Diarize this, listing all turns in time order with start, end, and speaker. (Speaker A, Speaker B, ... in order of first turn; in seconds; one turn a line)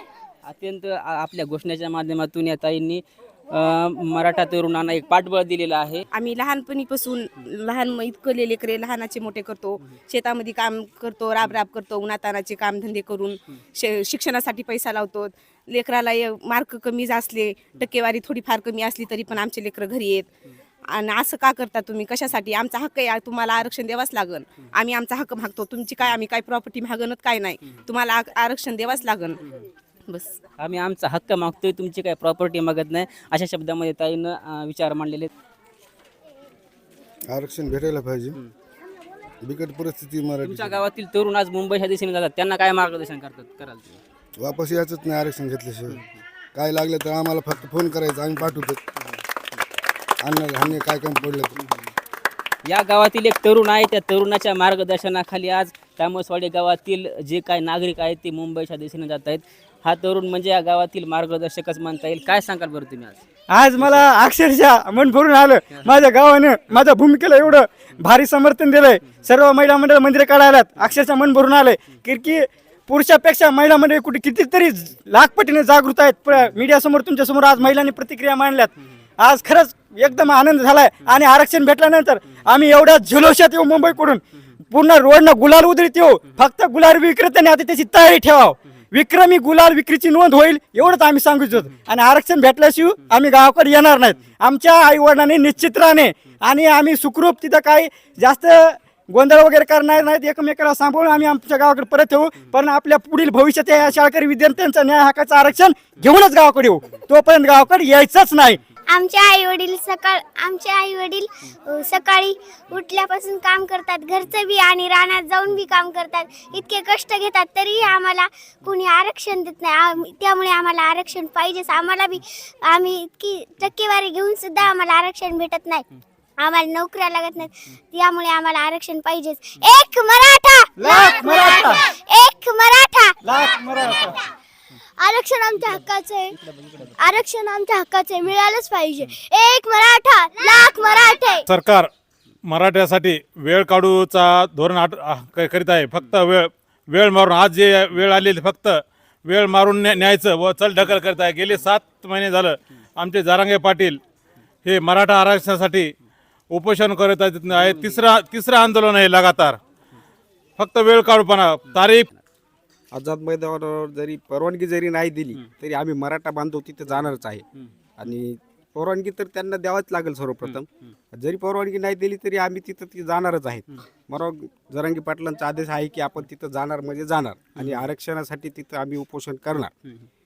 Speaker A: 0.4-6.0
Speaker B: 6.1-20.3
Speaker B: 20.9-29.4
Speaker A: 30.6-35.3
Speaker C: 37.3-38.3
Speaker D: 37.8-38.1
Speaker C: 39.5-40.5
Speaker A: 40.4-44.0
Speaker D: 40.5-40.8
Speaker C: 44.5-45.8
Speaker D: 44.6-45.9
Speaker C: 46.5-48.8
Speaker D: 48.3-48.7
Speaker C: 50.2-51.5
Speaker D: 50.6-51.4
Speaker A: 52.6-63.2
Speaker E: 63.5-108.6
Speaker F: 108.9-125.8
Speaker F: 126.4-133.2
Speaker E: 130.8-131.8
Speaker E: 133.2-134.2
Speaker F: 135.0-136.3
Speaker F: 137.0-141.4
Speaker G: 141.5-141.9
Speaker G: 142.4-154.0
Speaker G: 154.6-155.9
Speaker G: 156.5-159.6
Speaker G: 160.6-162.1
Speaker D: 162.9-163.6
Speaker D: 164.3-166.1
Speaker D: 166.8-167.3
Speaker D: 168.0-170.6
Speaker D: 171.2-171.9
Speaker D: 172.4-179.6
Speaker A: 177.6-177.9